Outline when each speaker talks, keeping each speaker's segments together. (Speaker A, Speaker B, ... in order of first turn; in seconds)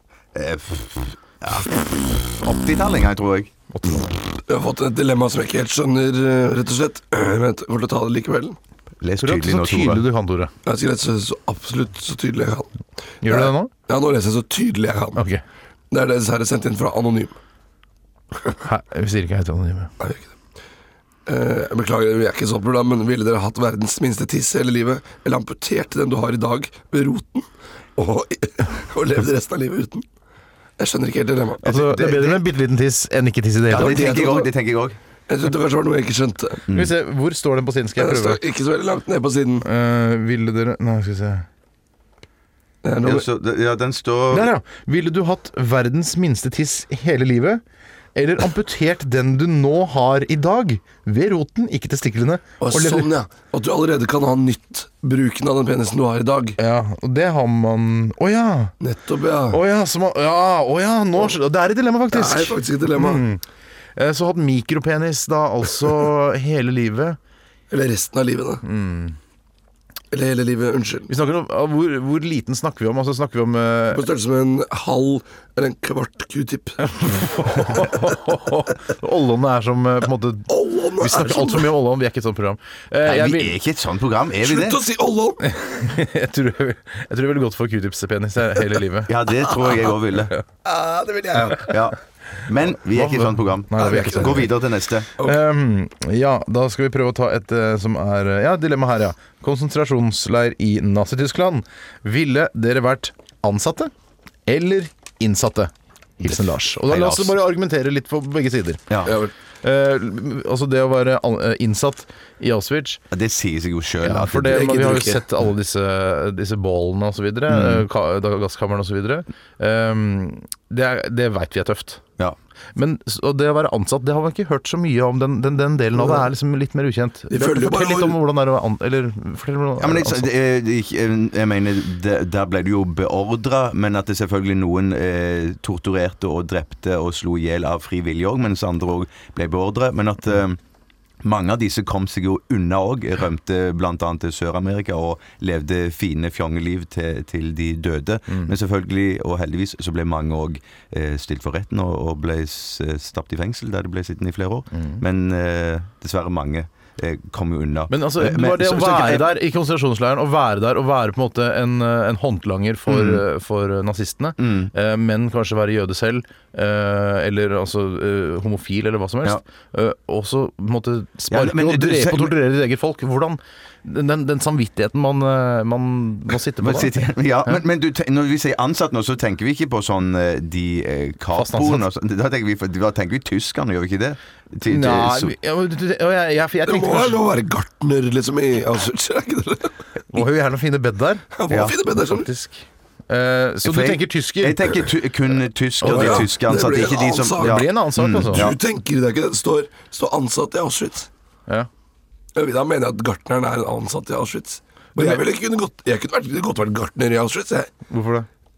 Speaker A: 0.3-4.0, 9.0-10.0, 31.6-32.4, 33.7-35.0, 36.7-36.9, 43.0-44.5, 83.0-84.8, 89.0-90.3, 91.3-95.1, 106.9-107.3, 108.9-109.1, 113.1-114.7, 117.5-117.8, 129.8-140.6, 141.2-159.3, 162.9-163.2, 164.4-164.7, 171.3-172.3, 176.6-185.3, 191.5-191.8, 193.6-198.6
Speaker B: 3.7-4.1, 9.2-10.5, 13.2-13.7, 15.2-15.4, 18.6-19.9, 31.6-34.0, 36.7-38.4, 39.6-41.5, 44.3-47.6, 48.1-53.1, 56.6-58.7, 59.5-63.4, 64.0-67.2, 68.6-69.2, 71.1-74.0, 76.8-83.5, 85.4-89.1, 92.9-94.5, 95.2-103.9, 104.5-108.8, 109.6-113.0, 114.0-122.0, 122.8-130.3, 154.7-155.0, 157.9-177.6, 181.3-181.8, 184.7-187.2, 190.1-191.2, 191.9-194.7, 195.8-196.2, 197.4-198.5, 207.9-208.3
Speaker C: 4.5-8.6, 10.6-12.7, 13.2-15.2, 15.9-17.4, 20.0-20.3, 21.2-30.0, 30.8-31.6, 33.7-34.5, 35.3-36.6, 38.0-39.6, 42.8-43.2, 52.6-56.6, 58.8-59.6, 62.1-63.2, 67.7-68.6, 70.1-71.1, 73.9-76.8, 77.5-78.0, 80.5-81.7, 84.4-85.6, 90.6-91.8, 93.8-94.5, 109.0-109.3, 114.4-115.3, 125.9-126.2, 127.3-128.2, 186.7-189.7, 191.3-192.3, 195.8-197.6, 198.3-201.1, 202.3-207.7